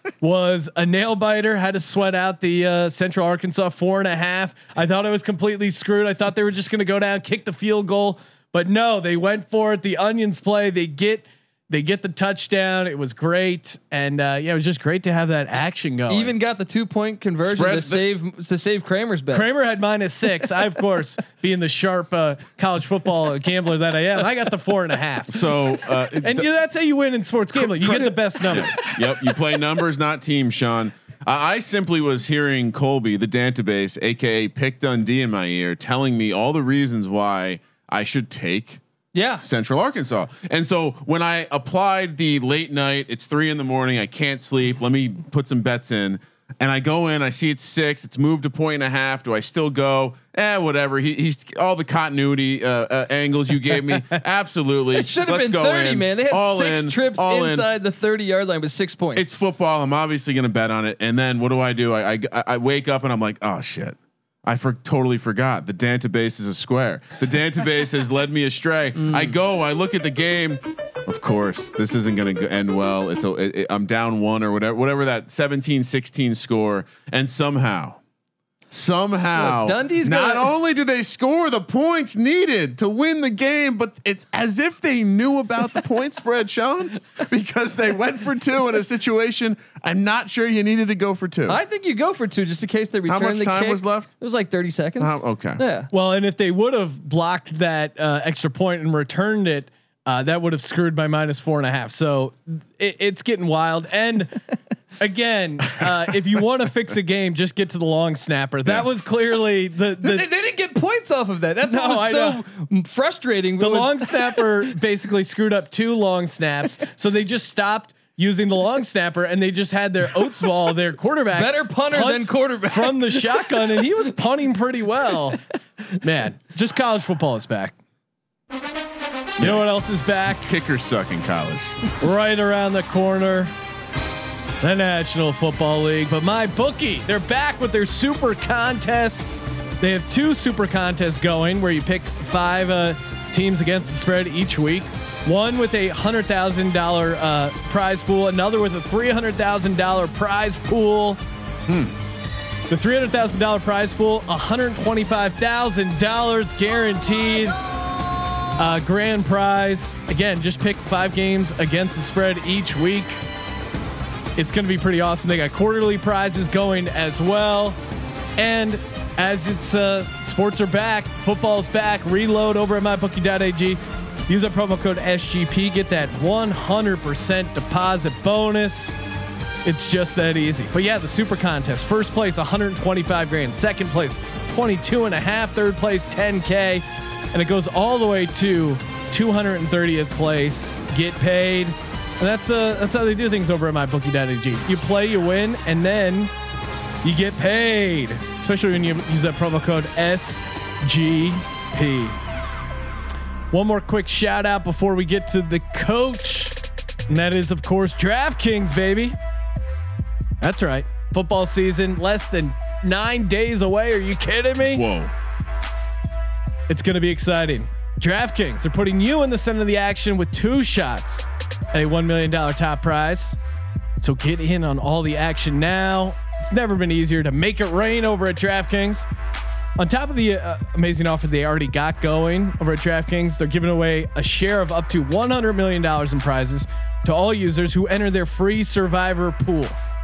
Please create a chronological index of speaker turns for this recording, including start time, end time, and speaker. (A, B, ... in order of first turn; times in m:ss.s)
0:00.2-0:16.3 A
0:16.1-0:19.5 B
0:17.4-0:18.0 C
0:19.3-0:25.4 A
0:25.3-0:26.5 C
0:26.2-0:28.8 A
0:27.6-0:38.8 C
0:39.1-0:39.4 B
0:39.4-0:57.7 C
0:54.9-0:59.2 B
0:59.2-1:18.0 C
1:09.1-1:09.3 B
1:18.7-1:31.6 C
1:19.4-1:20.5 B
1:31.5-1:35.9 B
1:33.1-1:34.1 C
1:35.0-1:35.6 C
1:35.9-1:44.4 A
1:45.0-1:50.2 A
1:50.0-1:54.6 B
1:51.6-1:52.4 A
1:53.6-2:05.4 A
2:01.3-2:03.8 B
2:06.0-2:07.8 A
2:09.4-2:09.7 C
2:09.4-2:10.5 A
2:10.3-2:11.8 C
2:12.0-2:13.5 A
2:14.6-2:19.3 A
2:19.8-2:31.2 A
2:31.7-2:31.9 C
2:32.7-2:37.6 A
2:38.6-2:43.2 A
2:44.4-2:47.8 A
2:48.4-2:59.0 A
2:59.6-3:16.3 A
3:17.0-3:22.2 A
3:23.5-3:26.6 A
3:27.1-3:29.2 A
3:30.4-3:34.8 A
3:34.7-3:35.1 C
3:36.7-3:43.4 A
3:44.0-3:49.0 A
3:49.8-3:59.8 A